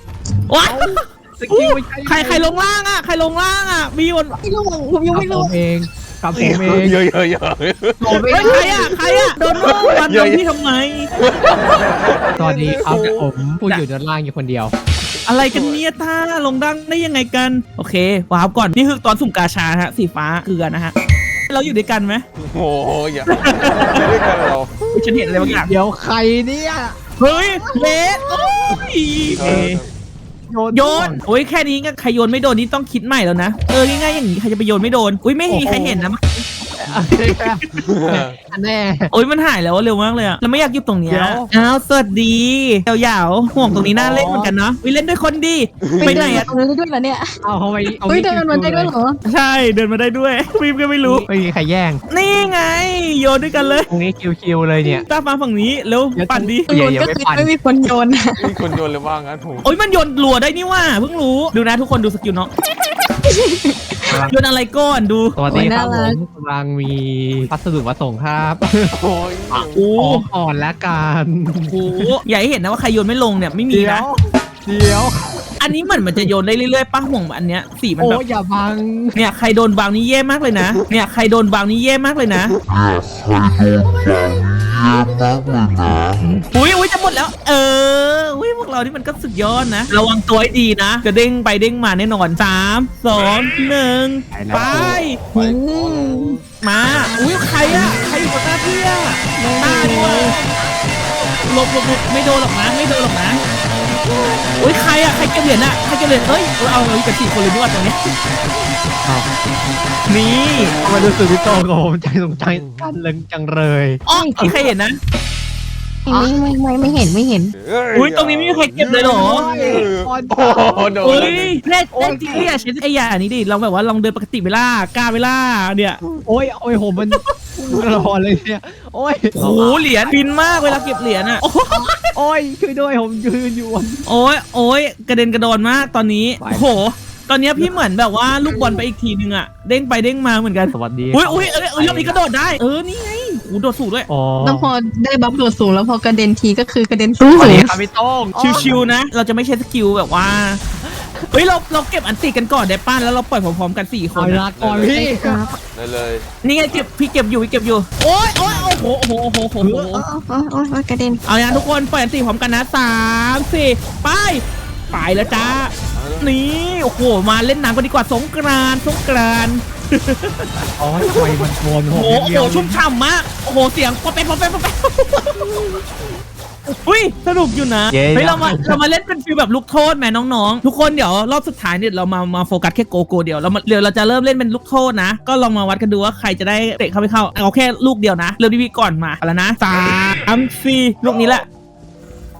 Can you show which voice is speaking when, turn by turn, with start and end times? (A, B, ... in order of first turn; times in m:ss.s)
0:00.5-0:04.4 A
0:00.6-0:02.5 B
0:04.4-0:05.5 C
0:05.1-0:07.0 B
0:06.3-0:08.4 D
0:08.0-0:09.4 C
0:08.0-0:08.8 B
0:08.3-0:11.1 A
0:09.5-0:10.4 D
0:11.2-0:13.3 D
0:12.4-0:14.7 B
0:15.2-0:20.9 A
0:15.3-0:15.8 D
0:21.5-0:22.2 A
0:22.4-0:25.5 D
0:23.3-0:24.0 A
0:24.9-0:25.7 A
0:25.6-0:28.5 B
0:27.2-0:29.8 A
0:29.3-0:29.9 D
0:29.4-0:29.8 B
0:30.5-0:31.2 B
0:30.7-0:36.4 A
0:35.5-0:36.1 B
0:36.8-0:39.1 B
0:37.7-0:38.4 D
0:39.1-0:46.5 A
0:41.1-0:41.5 B
0:43.8-0:44.5 B
0:45.8-0:46.5 D
0:46.0-0:47.4 C
0:47.4-0:48.9 B
0:48.0-0:49.2 C
0:49.2-0:51.2 A
0:51.0-0:52.0 B
0:52.1-0:53.9 A
0:53.9-0:55.0 B
0:55.1-0:56.7 A
0:56.2-0:57.5 B
0:56.7-0:58.5 C
0:58.4-0:59.7 D
0:59.6-1:02.5 A
1:03.2-1:04.2 C
1:04.0-1:04.3 B
1:04.3-1:05.4 A
1:05.4-1:08.9 B
1:05.5-1:06.2 C
1:08.9-1:09.9 D
1:09.5-1:12.1 B
1:09.8-1:10.2 A
1:11.7-1:14.1 A
1:13.7-1:15.2 B
1:15.6-1:18.2 A
1:18.0-1:19.2 B
1:19.2-1:22.5 A
1:24.0-1:25.1 B
1:26.4-1:35.2 A
1:34.3-1:35.0 B
1:34.5-1:37.2 D
1:35.3-1:36.4 C
1:36.6-1:40.4 A
1:39.4-1:40.4 C
1:41.4-1:43.4 A
1:44.6-1:48.0 A
1:50.1-1:50.8 A
1:50.8-1:54.4 B
1:54.1-1:55.0 A
1:54.1-1:54.6 C
1:56.0-1:57.5 C
1:56.1-1:56.3 B
1:57.5-2:01.6 D
1:57.9-1:59.4 A
1:59.0-2:01.3 B
2:01.0-2:06.0 A
2:01.9-2:02.5 B
2:06.2-2:10.2 B
2:07.0-2:07.3 A
2:09.4-2:12.0 A
2:11.7-2:14.0 B
2:14.1-2:24.1 A
2:16.4-2:16.7 B
2:18.5-2:18.8 C
2:20.7-2:22.2 B
2:24.1-2:24.7 B
2:24.4-2:27.8 C
2:27.3-2:28.8 B
2:28.4-2:30.6 A
2:31.3-2:34.4 A
2:34.1-2:35.5 B
2:34.6-2:35.0 D
2:34.9-2:35.5 C
2:35.7-2:36.9 D
2:36.4-2:40.0 A
2:38.4-2:38.9 D
2:39.6-2:40.0 B
2:40.0-2:41.2 C
2:41.3-2:50.5 A
2:45.9-2:46.4 D
2:50.8-2:52.8 B
2:51.0-2:55.8 A
2:56.7-3:11.4 A
2:57.9-2:58.8 B